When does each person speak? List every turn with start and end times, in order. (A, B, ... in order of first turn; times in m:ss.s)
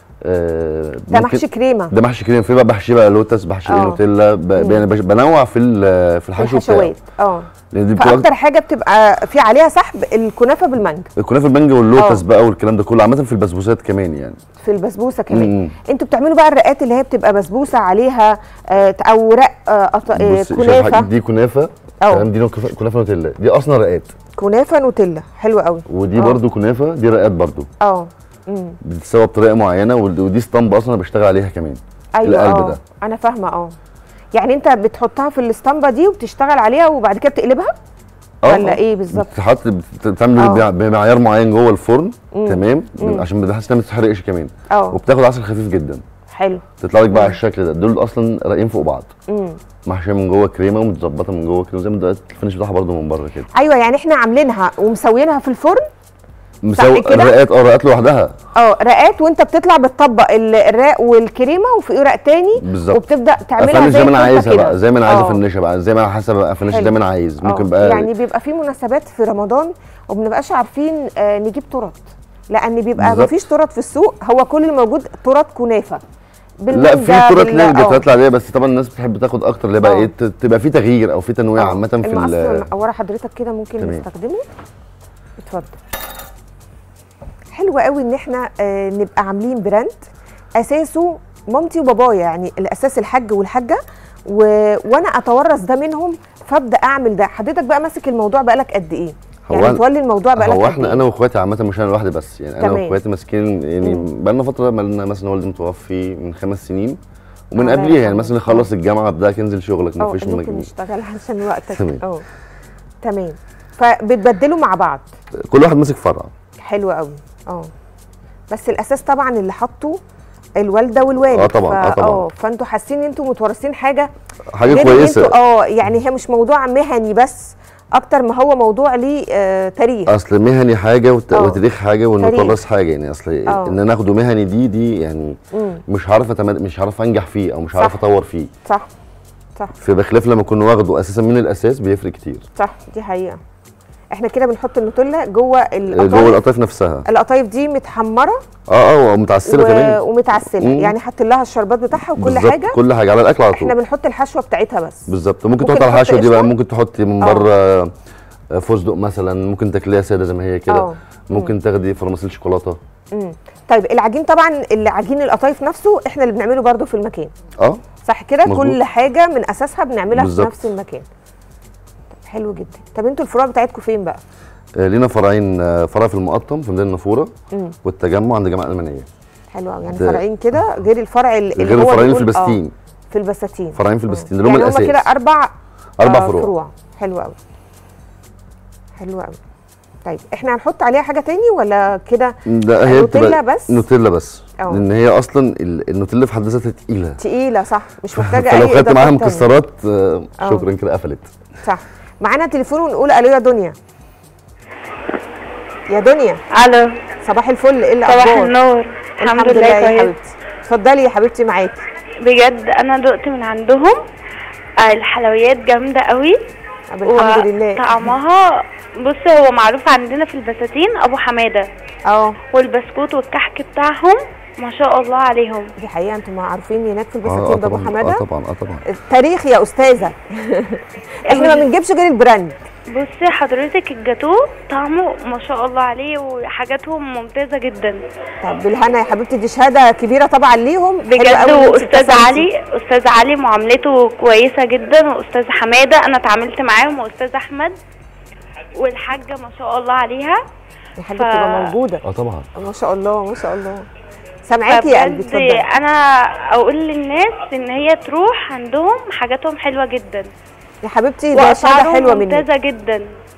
0:00.2-0:07.0 A
0:01.1-0:01.9 B
0:03.7-0:04.0 B
0:04.6-0:04.8 B
0:06.4-0:11.1 B
0:07.7-0:08.3 A
0:11.2-0:14.4 A
0:12.0-0:12.2 B
0:14.6-0:21.1 B
0:15.3-0:15.7 A
0:20.2-0:24.1 A
0:24.4-0:26.4 B
0:25.9-0:27.7 A
0:27.8-0:28.8 B
0:28.8-0:32.8 A
0:32.2-0:33.7 B
0:34.3-0:37.7 B
0:38.4-0:46.0 A
0:38.5-0:39.3 B
0:40.4-0:40.7 B
0:42.3-0:43.2 B
0:44.7-0:45.0 B
0:46.3-0:47.4 B
0:46.8-0:49.1 A
0:49.3-0:49.6 B
0:49.9-0:53.5 A
0:53.5-0:55.9 B
0:56.6-0:58.3 A
0:56.8-0:57.4 B
0:58.6-1:05.4 B
1:02.6-1:03.0 A
1:03.6-1:08.1 A
1:06.7-1:16.0 B
1:13.0-1:13.3 A
1:16.6-1:18.0 B
1:16.7-1:22.7 A
1:19.8-1:20.1 B
1:21.6-1:24.4 B
1:23.8-1:24.0 A
1:25.4-1:25.8 B
1:27.5-1:30.0 B
1:30.6-1:41.0 B
1:39.5-1:39.8 A
1:40.4-1:47.0 A
1:42.6-1:43.0 B
1:47.5-1:50.7 A
1:47.6-1:48.7 B
1:50.0-1:52.2 B
1:51.7-1:52.0 A
1:53.0-1:55.0 B
1:55.4-1:56.3 A
1:56.6-1:57.7 B
1:58.5-2:00.0 B
2:00.6-2:04.1 B
2:01.3-2:02.3 A
2:04.5-2:05.4 A
2:04.7-2:10.1 B
2:10.1-2:18.5 A
2:11.3-2:11.6 B
2:12.2-2:12.6 B
2:13.5-2:13.8 B
2:15.5-2:15.8 B
2:19.8-2:22.4 A
2:22.6-2:23.4 B
2:24.1-2:26.4 B
2:25.9-2:27.1 A
2:27.1-2:28.4 B
2:28.7-2:30.0 A
2:29.5-2:32.8 B
2:30.6-2:31.0 A
2:32.0-2:33.8 A
2:33.5-2:35.1 B
2:35.1-2:37.9 A
2:35.6-2:36.5 B
2:37.2-2:37.5 B
2:38.5-2:42.8 A
2:40.7-2:41.5 B
2:43.1-2:47.3 B
2:48.0-2:51.1 B
2:48.4-2:48.8 A
2:50.1-2:50.7 A
2:52.2-2:54.2 B
2:54.8-2:57.3 A
2:57.8-2:59.1 A
2:59.5-3:02.6 B
2:59.9-3:00.2 A
3:01.6-3:02.7 A
3:03.1-3:07.4 B
3:03.8-3:05.1 A
3:06.0-3:06.5 A
3:09.0-3:09.4 B
3:10.0-3:13.8 B
3:12.5-3:17.2 A
3:17.2-3:19.5 B
3:18.2-3:21.3 A
3:20.4-3:20.7 B
3:21.6-3:23.8 B
3:25.9-3:26.4 B
3:26.5-3:27.0 C
3:27.2-3:28.6 B
3:28.0-3:30.1 C
3:29.2-3:31.9 B
3:32.2-3:34.0 C
3:34.8-3:36.4 C
3:36.9-3:38.1 B
3:37.0-3:41.7 C
3:42.1-3:42.4 B
3:42.5-3:45.7 C
3:45.8-3:48.2 B
3:47.2-3:48.8 A
3:48.9-3:52.6 B
3:51.3-3:51.7 C
3:52.9-3:58.0 C
3:58.4-4:02.5 B
4:01.0-4:07.8 C
4:08.8-4:10.4 C
4:11.0-4:12.0 B
4:11.1-4:11.8 C
4:12.0-4:12.5 A
4:12.6-4:13.9 B
4:14.5-4:15.6 B
4:14.7-4:20.3 C
4:20.8-4:22.4 B
4:21.3-4:23.1 C